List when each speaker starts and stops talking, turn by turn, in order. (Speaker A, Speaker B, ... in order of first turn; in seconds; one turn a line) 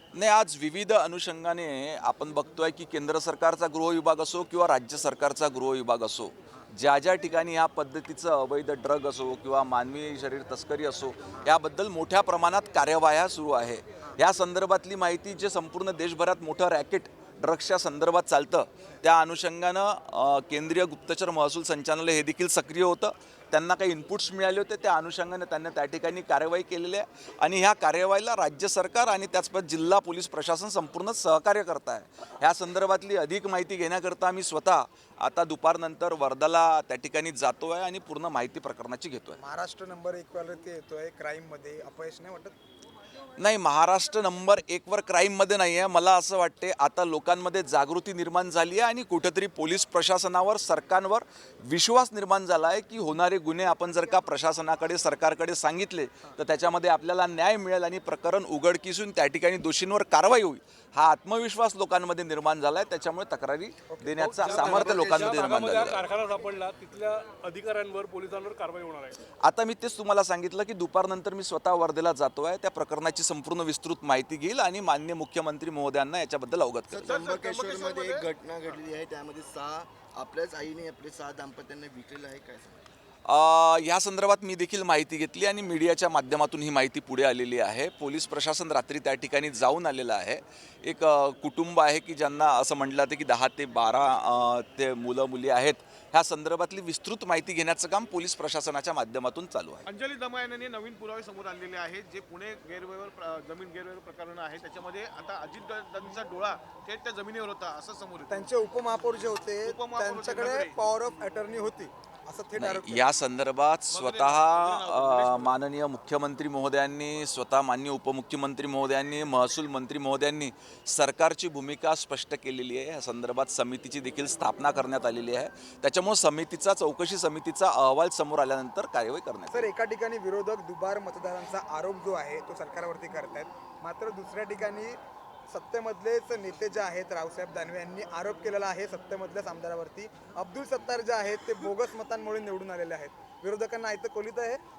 Speaker A: 0.1-39.4
Speaker B: 39.4-42.5
Speaker A: 43.4-66.0
Speaker B: 63.9-64.6
Speaker C: 64.2-69.2
Speaker D: 64.4-65.5
Speaker A: 69.4-77.2
Speaker D: 76.9-82.9
Speaker E: 77.0-78.3
Speaker A: 83.2-99.8
Speaker E: 99.8-108.4
Speaker B: 108.3-113.1
Speaker E: 109.6-110.7
Speaker A: 112.5-129.7
Speaker E: 113.9-115.6
Speaker B: 129.5-135.0
Speaker B: 135.5-144.6